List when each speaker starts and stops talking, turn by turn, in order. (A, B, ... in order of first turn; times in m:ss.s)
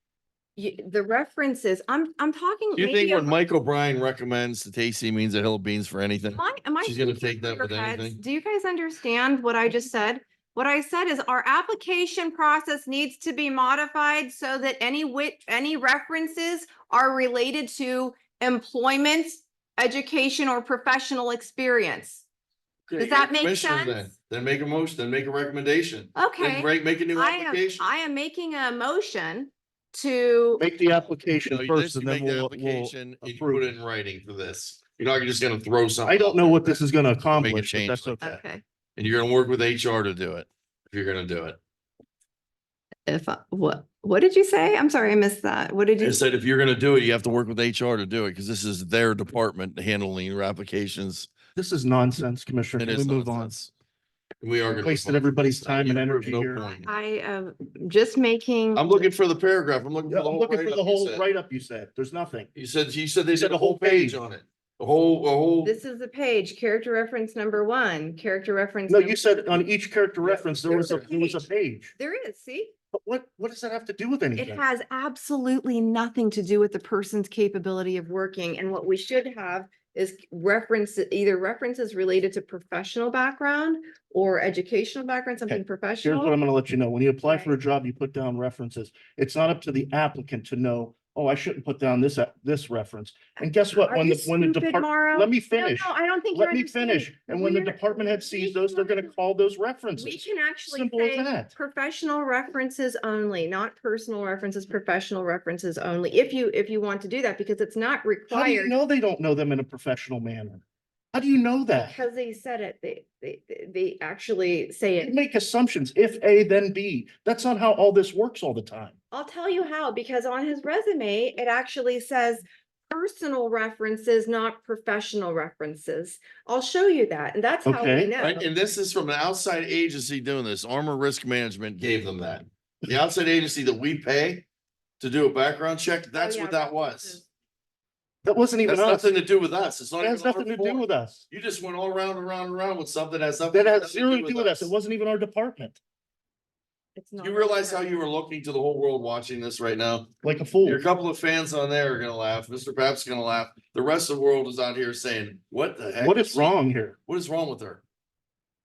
0:00.6-0:03.4 A
0:02.8-0:08.2 B
0:06.3-0:22.2 A
0:22.9-0:27.9 B
0:23.0-0:24.1 A
0:26.1-0:30.7 A
0:30.6-0:33.7 C
0:31.4-0:36.8 B
0:36.0-0:38.2 C
0:37.3-0:38.4 B
0:38.2-0:38.6 A
0:39.0-0:41.6 B
0:43.0-0:46.2 A
0:46.0-0:51.3 B
0:51.6-0:53.5 C
0:52.8-0:53.7 B
0:54.4-0:56.9 B
0:54.8-0:56.6 C
0:56.6-0:59.1 A
0:58.7-1:01.2 B
1:00.1-1:02.5 C
1:02.5-1:05.8 B
1:03.3-1:04.2 C
1:05.6-1:09.3 A
1:08.9-1:11.9 C
1:10.2-1:11.2 B
1:10.7-1:11.4 A
1:12.0-1:12.7 A
1:12.9-1:14.6 C
1:14.4-1:26.3 A
1:25.5-1:41.5 C
1:27.2-1:27.6 A
1:33.7-1:39.1 A
1:40.0-1:48.7 A
1:48.3-1:50.6 C
1:51.1-1:52.0 C
1:51.8-1:55.1 A
1:55.0-1:58.9 C
1:59.1-2:08.4 A
2:07.6-2:08.1 C
2:08.2-2:14.4 B
2:15.0-2:17.2 B
2:16.1-2:17.2 A
2:18.2-2:19.1 C
2:18.6-2:24.7 B
2:20.0-2:21.2 C
2:23.5-2:25.8 C
2:27.0-2:28.0 A
2:27.2-2:30.1 B
2:30.2-2:30.8 C
2:30.6-2:36.5 B
2:36.0-2:37.0 C
2:37.1-2:37.8 B